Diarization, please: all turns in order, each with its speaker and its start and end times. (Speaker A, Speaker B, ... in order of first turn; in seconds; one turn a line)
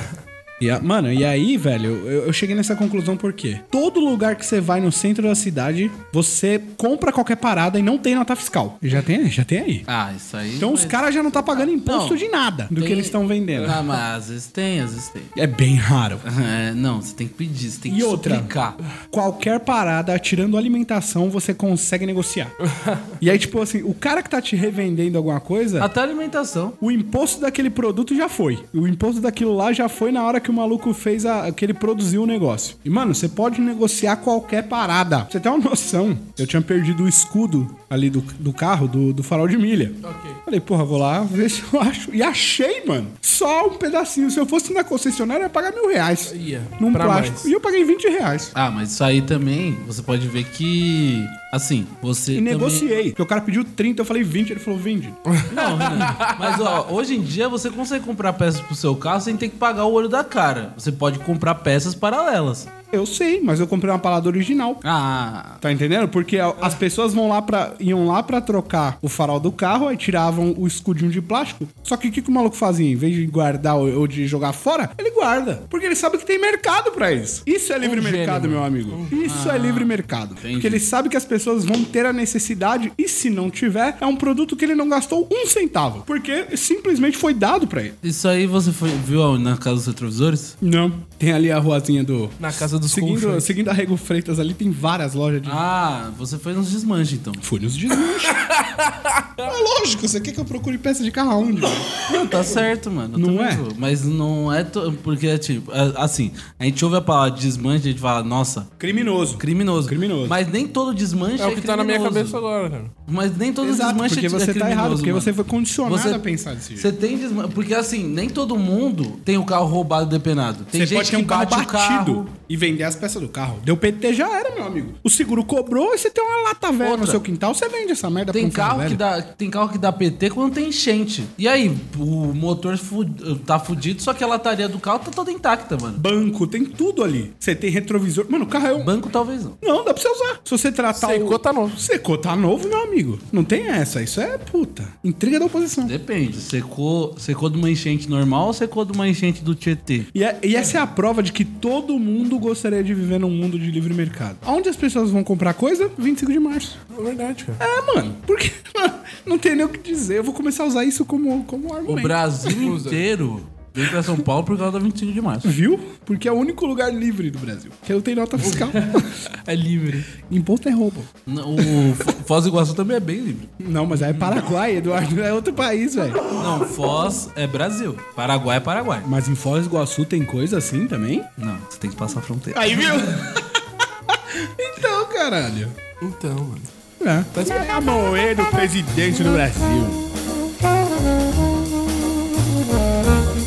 Speaker A: 0.6-9.8
Speaker B: 9.9-15.3
Speaker A: 10.6-13.8
Speaker A: 15.4-16.2
Speaker B: 16.2-18.8
Speaker A: 17.9-18.5
Speaker A: 19.1-22.6
Speaker C: 22.7-23.1
Speaker A: 23.2-25.9
Speaker B: 25.8-26.8
Speaker A: 26.8-48.5
Speaker C: 40.0-40.4
Speaker C: 46.3-47.5
Speaker B: 48.5-52.9
Speaker A: 52.3-55.2
Speaker C: 55.3-56.7
Speaker B: 55.5-62.7
Speaker A: 62.9-64.8
Speaker B: 64.8-65.6
Speaker A: 65.6-88.0
Speaker C: 77.8-79.2
Speaker B: 79.2-80.8
Speaker B: 88.0-90.5
Speaker A: 90.6-95.6
Speaker C: 92.4-93.5
Speaker B: 95.5-97.4
Speaker A: 97.4-98.4
Speaker C: 98.2-99.5
Speaker A: 99.4-101.9
Speaker B: 102.0-108.8
Speaker A: 103.1-103.7
Speaker A: 108.8-110.4
Speaker B: 109.4-112.4
Speaker C: 111.4-112.9
Speaker B: 113.1-115.3
Speaker A: 113.6-116.9
Speaker B: 115.8-116.2
Speaker B: 116.8-122.3
Speaker A: 120.7-129.0
Speaker B: 126.8-127.2
Speaker B: 128.3-136.0
Speaker A: 136.0-138.9
Speaker B: 138.8-139.6
Speaker A: 139.6-145.9
Speaker C: 140.9-141.8
Speaker B: 145.8-150.1
Speaker A: 150.1-156.8
Speaker C: 156.9-157.6
Speaker A: 157.6-162.7
Speaker B: 161.9-165.5
Speaker C: 162.6-163.0
Speaker A: 163.8-164.2
Speaker A: 165.4-169.4
Speaker C: 169.5-170.1
Speaker A: 170.1-172.1
Speaker B: 171.3-173.5
Speaker A: 173.6-176.2
Speaker B: 174.0-174.4
Speaker B: 176.3-179.1
Speaker A: 179.0-181.3
Speaker B: 181.4-183.2
Speaker A: 182.5-185.8
Speaker C: 186.0-186.7
Speaker A: 187.0-190.0
Speaker C: 187.3-187.6